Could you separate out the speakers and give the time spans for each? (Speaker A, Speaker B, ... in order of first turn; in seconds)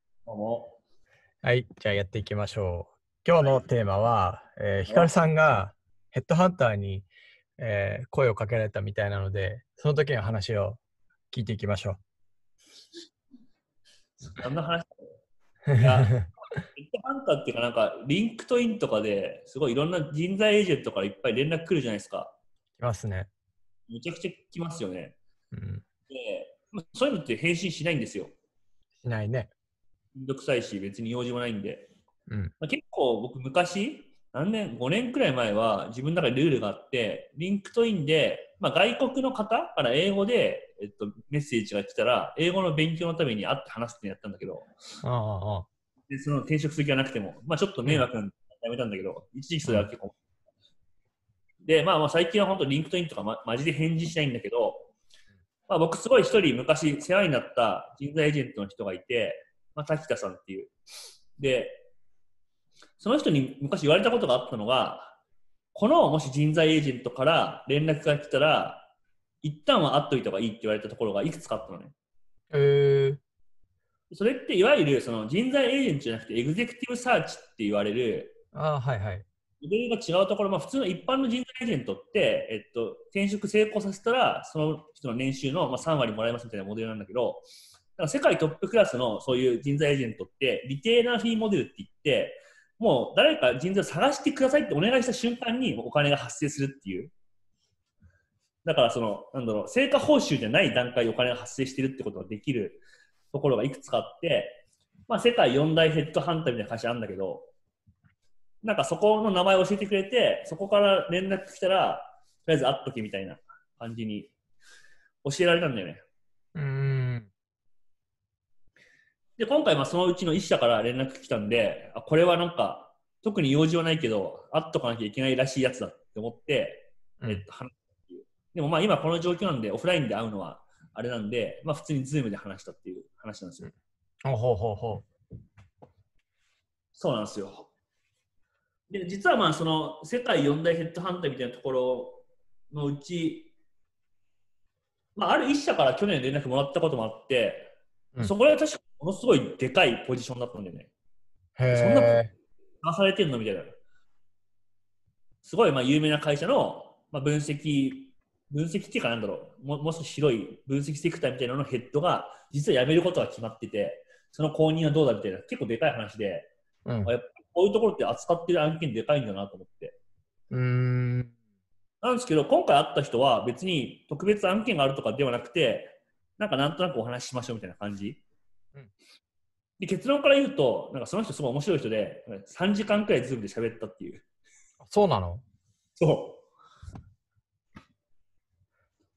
Speaker A: 0.3-0.8, 4.8-5.1, 14.2-15.0, 15.7-22.4, 23.9-25.2, 26.1-28.3, 30.1-31.9, 32.6-44.7, 46.1-50.2, 51.6-54.9, 55.7-60.7, 61.4-61.9, 63.0-65.2, 65.7-68.9, 69.4-71.9, 74.1-78.4, 79.6-87.4, 88.0-97.1, 98.7-107.5, 108.6-114.3, 115.2-116.0, 119.4-133.7, 136.9-137.7, 138.9-143.5, 145.2-150.9, 151.7-152.2, 152.8-153.8, 155.4-166.5, 167.1-170.0, 172.0-178.2, 179.8-184.2, 186.0-186.4
Speaker B: 1.4-10.8, 11.3-12.0, 15.7-16.3, 22.8-23.3, 25.5-25.8, 29.0-29.5, 45.0-45.7, 72.5-73.2, 78.5-79.3, 116.6-117.3, 134.2-135.1, 151.6-152.3, 166.9-167.1, 170.5-171.3, 184.8-185.4